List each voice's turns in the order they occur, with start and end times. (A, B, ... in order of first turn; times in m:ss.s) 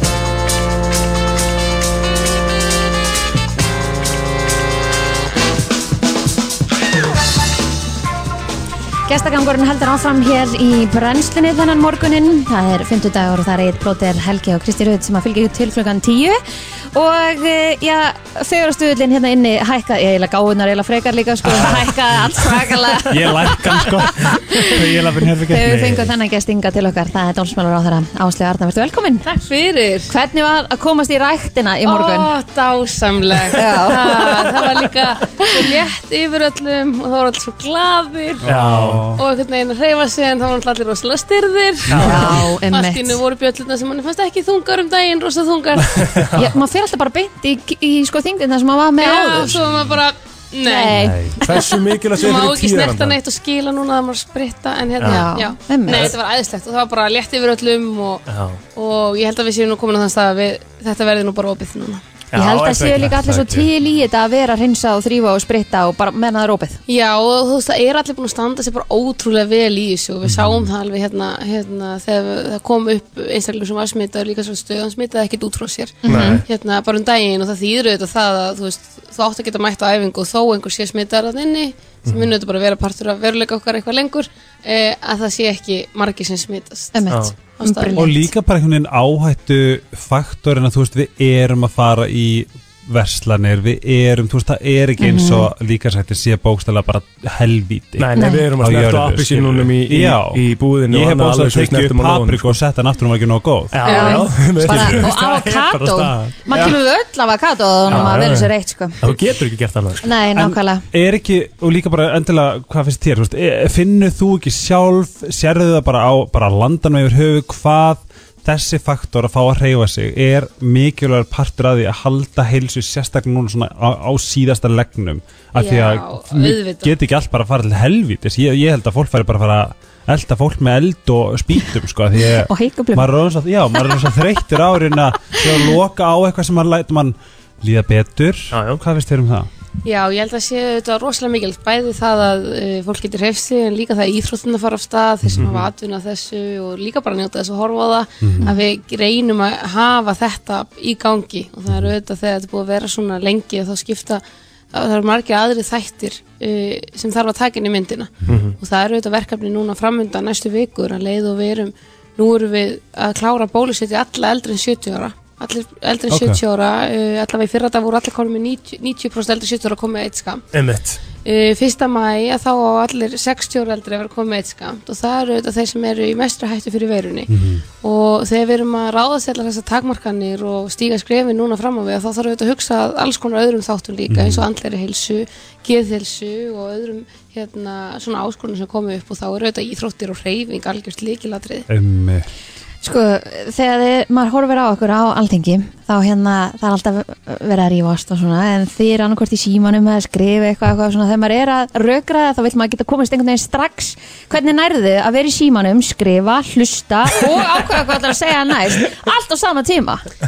0:09.1-0:16.4 A
0:16.9-0:24.7 A
0:23.1-0:26.1 B
0:25.4-0:29.3 A
0:29.2-0:30.1 C
0:30.1-0:32.3 A
0:31.8-0:38.4 C
0:33.5-0:34.4 A
0:38.4-0:39.2 B
0:38.4-0:39.1 D
0:39.1-0:46.3 C
0:41.9-0:42.3 D
0:42.0-0:43.2 A
0:46.0-0:46.4 D
0:46.3-0:49.6 A
0:49.0-0:51.0 C
0:50.6-0:51.4 A
0:51.0-0:51.4 B
0:51.4-0:53.2 D
0:51.5-1:02.0 C
0:55.0-0:55.2 D
0:55.0-0:56.1 A
0:58.3-0:58.6 D
1:02.3-1:03.1 D
1:02.4-1:06.8 A
1:02.9-1:03.7 B
1:06.9-1:28.0 C
1:10.2-1:10.7 B
1:16.0-1:16.4 A
1:16.0-1:16.4 D
1:22.0-1:22.3 D
1:26.9-1:28.3 A
1:28.0-1:43.8 B
1:35.0-1:35.5 A
1:38.0-1:42.6 D
1:38.2-1:38.4 A
1:43.7-1:46.3 D
1:43.8-1:49.0 A
1:43.9-1:44.2 C
1:44.6-1:45.1 B
1:47.9-1:48.5 D
1:49.0-1:50.0 D
1:50.0-1:50.8 A
1:50.4-2:19.5 B
2:05.6-2:06.9 C
2:12.2-2:13.1 A
2:18.5-2:18.8 D
2:19.8-2:50.4 C
2:25.2-2:25.6 B
2:25.4-2:25.7 D
2:28.2-2:28.5 B
2:38.3-2:38.6 D
2:46.1-2:46.4 B
2:50.5-2:51.0 D
2:51.1-2:57.3 C
2:57.3-2:57.6 B
2:57.8-3:11.6 C
3:04.1-3:04.5 B
3:11.7-3:12.3 B
3:12.8-3:30.0 A